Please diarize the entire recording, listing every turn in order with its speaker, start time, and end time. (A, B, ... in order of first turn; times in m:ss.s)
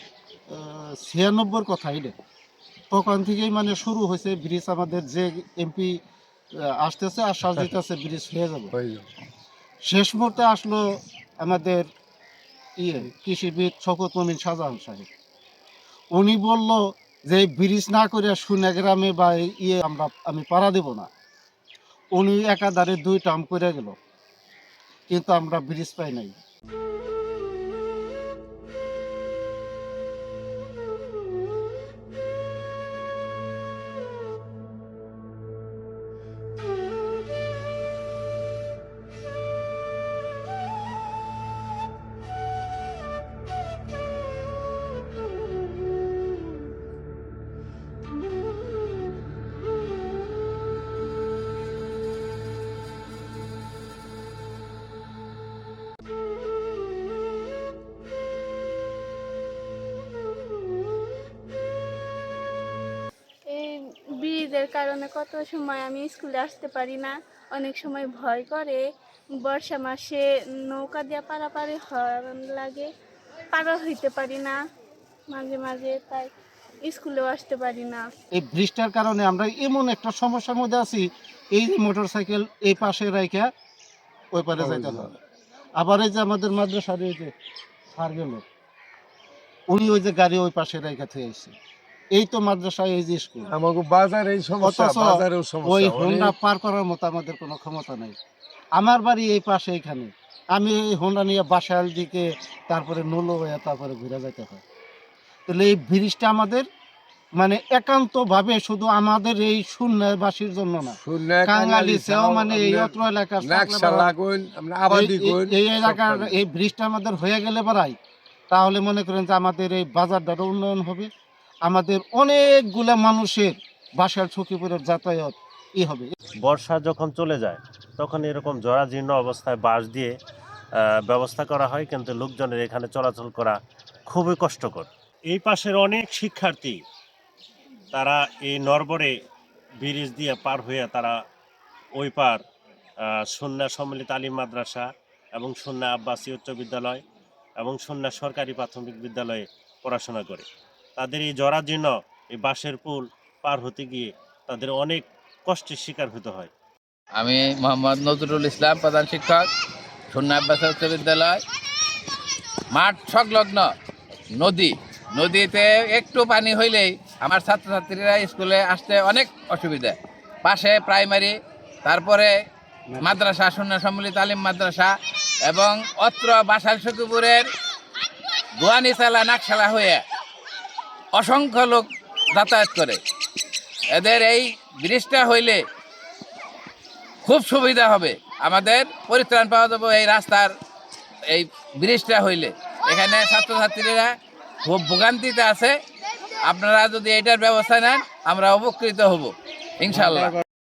0:00.5-0:02.1 A
0:02.9-0:06.0 A
0:06.8-0:08.7 A
0:08.7-0:09.1 B
0:09.9-0:10.8 A
0:11.4-0:11.9 A
0:12.8-0:15.1 A
0:16.1-0:21.1 A
0:22.1-0:24.0 A
0:25.1-0:26.3 A
1:03.5-1:08.8 C
1:09.4-1:12.9 C
1:13.5-1:14.6 C
1:15.3-1:16.3 C
1:16.9-1:18.0 C
1:18.3-1:23.5 A
1:24.3-1:25.1 A
1:24.7-1:25.0 B
1:25.8-1:27.3 A
1:27.9-1:28.4 A
1:29.7-1:31.6 A
1:32.1-1:33.5 A
1:33.5-1:36.3 B
1:34.6-1:38.2 A
1:38.8-1:44.6 A
1:45.5-1:46.7 A
1:47.4-1:54.1 A
1:51.1-1:55.6 B
1:54.9-1:58.0 A
1:58.5-2:01.1 A
2:01.7-2:06.1 A
2:06.4-2:10.1 D
2:11.1-2:13.6 D
2:14.1-2:16.8 D
2:17.9-2:19.1 D
2:19.8-2:21.2 D
2:22.0-2:22.4 D
2:23.1-2:24.9 D
2:25.4-2:27.0 D
2:27.6-2:30.5 D
2:31.0-2:36.5 D
2:37.2-2:39.5 E
2:40.1-2:41.4 E
2:42.7-2:43.7 E
2:44.4-2:52.3 E
2:53.0-2:54.9 E
2:55.5-2:57.4 E
2:58.6-3:00.0 E
3:01.2-3:03.0 E
3:03.9-3:05.6 E
3:07.2-3:10.5 E
3:11.3-3:14.1 E
3:14.6-3:15.7 E
3:16.4-3:20.4 E